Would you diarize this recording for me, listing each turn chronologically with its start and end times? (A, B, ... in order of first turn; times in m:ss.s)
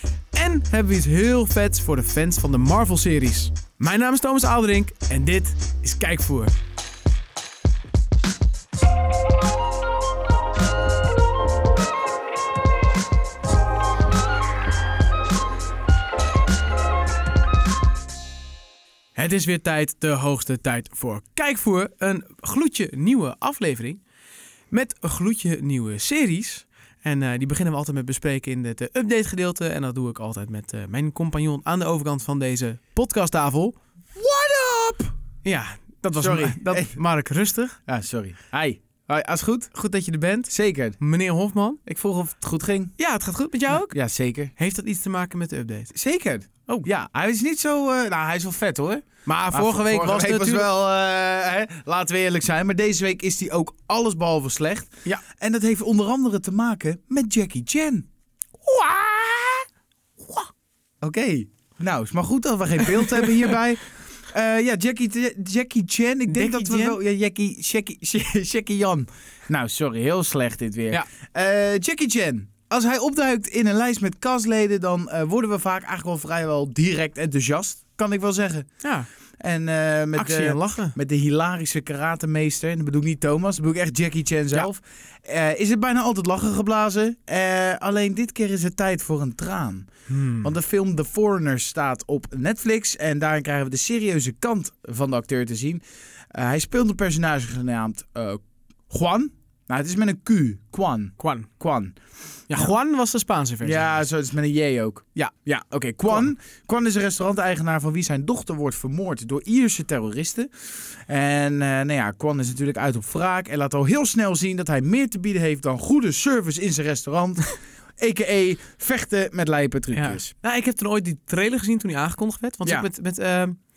0:00.3-0:06.5 A
0:19.2-0:24.0 A
0:24.7-0:33.8 A
0:34.2-0:35.1 B
0:35.4-0:37.8 A
0:36.2-0:37.0 B
0:37.9-0:39.7 B
0:39.7-0:41.8 A
0:40.5-0:41.0 B
0:41.9-0:42.9 B
0:43.0-0:44.0 A
0:43.7-0:44.5 B
0:44.6-0:45.9 A
0:45.9-0:58.1 B
0:49.3-0:50.7 A
0:58.6-0:59.6 B
1:01.0-1:18.7 B
1:03.0-1:03.3 A
1:06.3-1:07.0 A
1:19.4-1:29.9 B
1:20.2-1:20.9 A
1:30.1-1:30.5 A
1:30.4-1:35.8 B
1:36.3-1:42.0 B
1:41.2-1:41.5 A
1:42.5-1:44.1 A
1:43.6-2:00.3 B
1:59.9-2:03.6 A